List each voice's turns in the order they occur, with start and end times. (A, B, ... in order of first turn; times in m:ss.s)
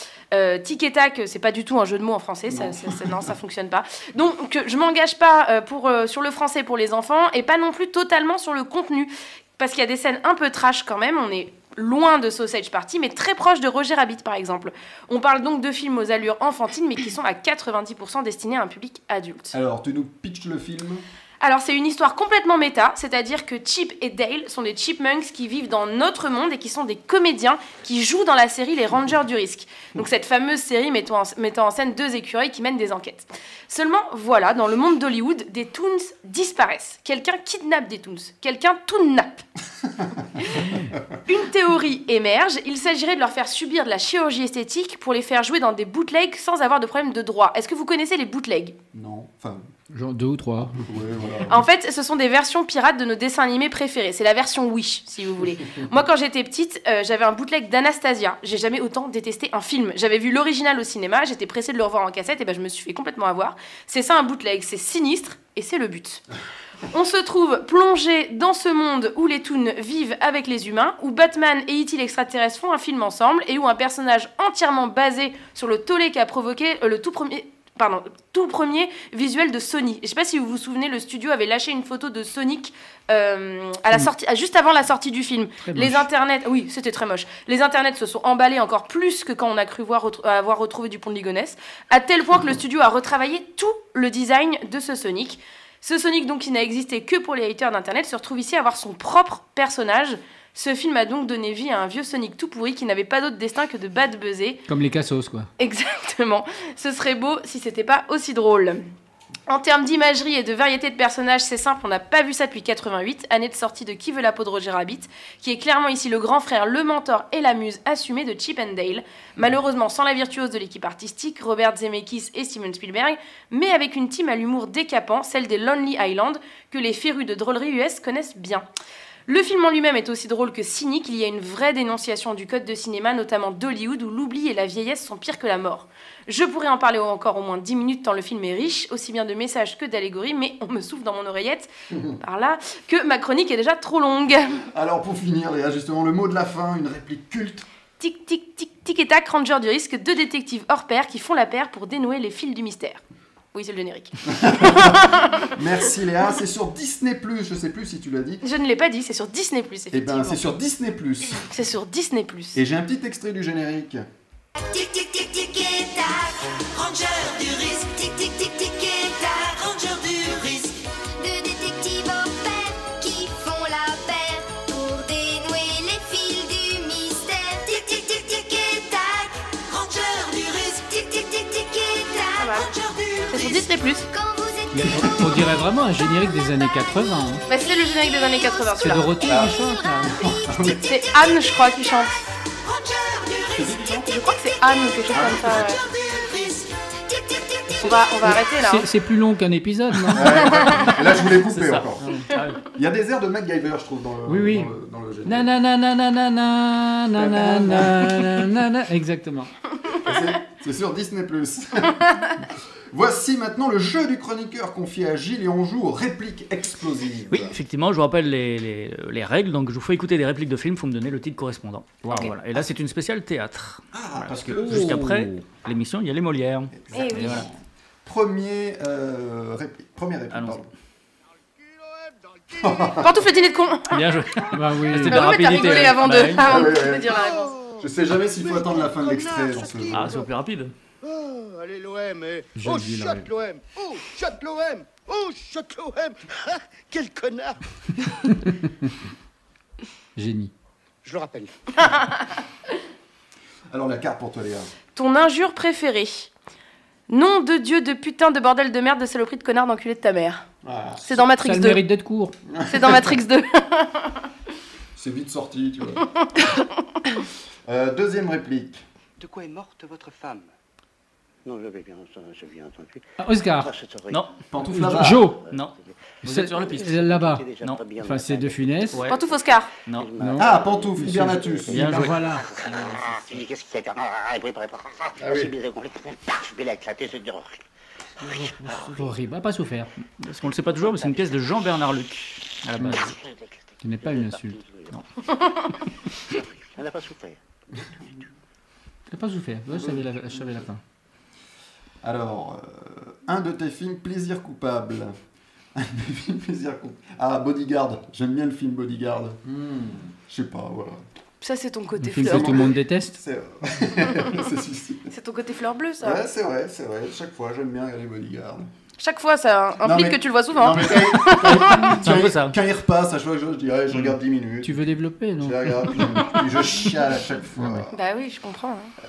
0:00.3-0:19.5 A
0:02.5-0:03.2 B
0:19.5-0:21.0 B
0:21.4-0:39.4 A
0:41.3-0:48.8 A
0:48.9-0:49.6 B
0:49.9-0:50.8 C
0:50.8-0:51.6 B
0:51.5-1:06.2 A
1:06.9-1:44.6 A
1:25.6-1:26.1 C
1:44.7-1:45.5 C
1:45.6-1:48.8 A
1:49.5-2:08.7 A
2:09.3-2:24.6 A
2:21.9-2:22.2 B
2:24.7-2:27.6 B
2:28.0-2:33.0 A
2:33.5-2:35.6 A
2:34.3-2:38.4 B
2:38.4-2:40.4 A
2:39.9-2:41.5 B
2:41.5-2:42.6 A
2:42.5-2:44.0 B
2:44.6-3:05.5 D
3:02.4-3:02.7 A
3:03.3-3:04.1 A
3:04.7-3:07.4 C
3:07.5-3:09.1 A
3:07.5-3:11.5 D
3:08.8-3:10.1 C
3:09.2-3:10.8 B
3:10.8-3:12.2 A
3:12.6-3:14.1 D
3:13.6-3:14.1 B
3:14.1-3:15.8 A
3:15.1-3:15.7 B
3:15.2-3:18.0 D
3:17.7-3:18.9 A
3:18.2-3:20.9 C
3:20.1-3:22.0 B
3:20.3-3:21.0 A
3:21.5-3:22.6 E
3:22.0-3:22.3 C
3:22.7-3:25.5 B
3:24.3-3:24.7 C
3:25.2-3:29.5 C
3:27.2-3:28.4 B
3:30.0-3:32.1 B
3:32.9-3:37.6 B
3:37.3-3:47.4 E
3:43.9-3:45.3 B
3:44.6-3:45.1 C
3:46.8-3:47.5 B
3:46.9-3:47.5 A
3:48.0-3:50.7 B
3:50.3-3:50.6 E
3:51.6-3:53.5 F
3:52.6-3:53.2 B
3:53.0-3:54.1 A
3:53.9-3:56.7 E
3:54.5-3:55.4 C
3:54.9-3:57.6 A
3:56.4-3:57.2 B
3:57.1-4:00.3 F
3:57.8-4:00.2 B
3:59.9-4:00.7 E
4:01.0-4:07.6 F
4:02.6-4:03.3 C
4:10.2-4:10.5 C
4:11.0-4:11.7 F
4:13.7-4:14.7 B
4:14.9-4:16.3 A
4:17.1-4:20.4 A
4:20.6-4:21.2 B
4:21.0-4:21.8 A
4:21.3-4:22.3 C
4:22.5-4:23.1 B
4:22.7-4:24.1 A
4:24.9-4:26.1 B
4:27.6-4:28.8 B
4:29.2-4:30.5 F
4:31.4-4:34.3 F
4:33.2-4:33.7 C
4:34.5-4:35.3 B
4:34.6-4:35.4 C
4:35.0-4:35.9 F
4:35.5-4:37.0 E
4:36.2-4:37.4 C
4:36.5-4:47.6 F
4:38.0-4:39.0 C
4:38.9-4:39.2 E
4:39.1-4:39.7 A
4:40.2-4:42.5 C
4:40.4-4:42.0 B
4:41.7-4:42.5 E
4:45.2-4:45.5 B
4:48.2-4:49.9 C
4:48.6-4:49.2 F
4:50.2-4:53.2 E
4:50.8-4:51.2 F
4:53.0-4:55.0 F
4:53.8-4:54.6 C
4:56.3-4:57.4 F
4:59.1-5:00.8 C
4:59.7-5:00.0 B
5:02.0-5:05.1 B
5:05.7-5:09.4 B
5:09.5-5:10.0 C
5:10.3-5:11.0 B
5:11.4-5:12.8 A
5:12.0-5:13.2 C
5:12.2-5:15.1 B
5:15.1-5:16.2 A
5:16.0-5:18.7 B
5:19.0-5:21.9 A
5:19.8-5:27.9 B
5:22.0-5:22.5 E
5:24.6-5:26.4 C
5:27.6-5:27.9 C
5:27.9-5:28.9 A